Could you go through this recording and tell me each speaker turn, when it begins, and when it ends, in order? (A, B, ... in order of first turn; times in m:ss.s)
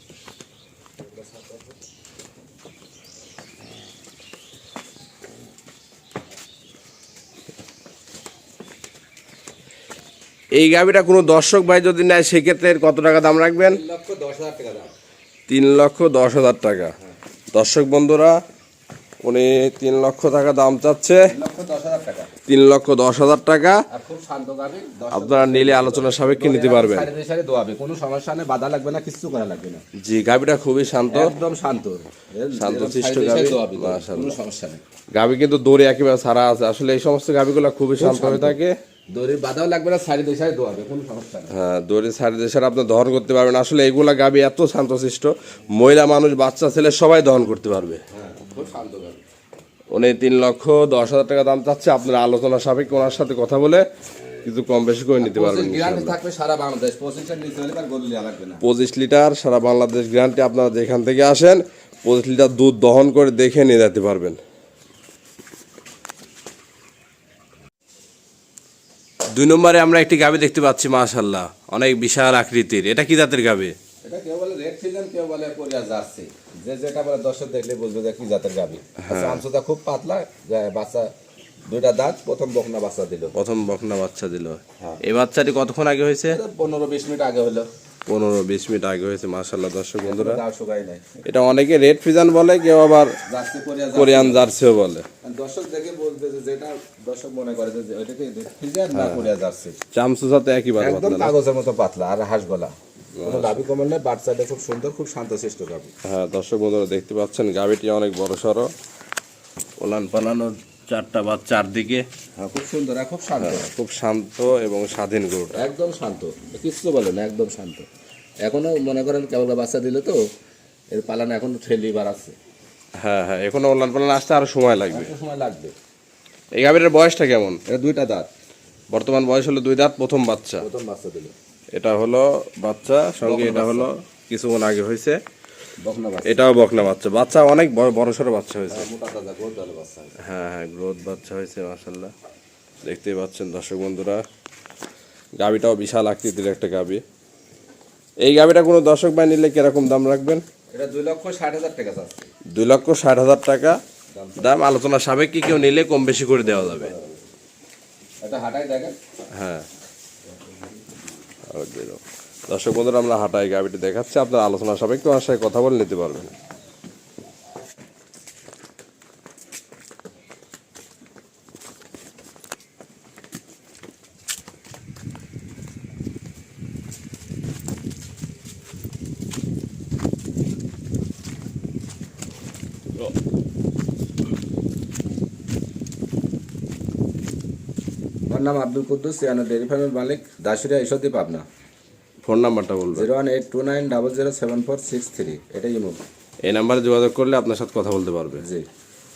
0:10.5-0:13.8 A
0:13.6-0:14.9 B
0:15.5-0:16.9 A
0:17.5-0:18.4 A
0:19.2-0:21.2 A
0:21.3-0:22.3 B
0:22.5-0:23.8 A
0:23.9-0:29.8 B
0:25.1-0:27.1 A
0:30.0-0:31.3 A
0:31.1-0:34.8 B
0:32.6-0:34.4 A
0:35.1-0:38.7 A
0:38.0-0:38.6 B
0:39.1-0:41.5 B
0:41.5-0:48.0 A
0:48.1-0:49.2 B
0:49.9-0:53.9 A
0:54.4-0:56.2 A
0:55.2-0:58.6 B
0:58.6-1:04.4 A
1:09.3-1:13.7 A
1:14.0-1:21.1 B
1:19.0-1:19.4 A
1:21.7-1:23.3 B
1:23.3-1:26.4 A
1:26.3-1:27.7 B
1:28.0-1:30.4 A
1:30.0-1:31.2 B
1:31.2-1:33.1 A
1:33.3-1:34.5 B
1:33.9-1:35.0 A
1:35.2-1:39.8 B
1:38.9-1:39.3 A
1:39.9-1:41.3 A
1:40.8-1:45.9 B
1:43.2-1:43.6 A
1:46.0-1:48.7 A
1:49.8-1:52.1 A
1:52.4-1:53.7 B
1:53.4-1:55.6 A
1:55.5-1:57.8 B
1:58.4-2:00.2 B
2:00.9-2:02.3 B
2:03.0-2:05.1 A
2:04.9-2:05.7 B
2:06.5-2:07.6 A
2:07.7-2:08.3 B
2:08.9-2:10.6 A
2:10.6-2:11.3 B
2:11.7-2:15.2 A
2:13.2-2:13.9 B
2:15.8-2:16.4 B
2:16.2-2:18.9 A
2:18.7-2:20.1 B
2:20.2-2:22.1 A
2:22.8-2:24.2 A
2:25.4-2:27.0 A
2:28.2-2:30.4 A
2:30.7-2:32.3 B
2:32.5-2:33.8 A
2:34.1-2:34.6 B
2:34.4-2:36.9 A
2:36.5-2:37.1 B
2:38.2-2:39.0 B
2:39.3-2:39.6 A
2:41.5-2:46.3 A
3:08.3-3:11.4 B
3:12.2-3:13.1 A
3:12.9-3:16.0 B
3:16.4-3:18.4 A
3:18.4-3:18.6 B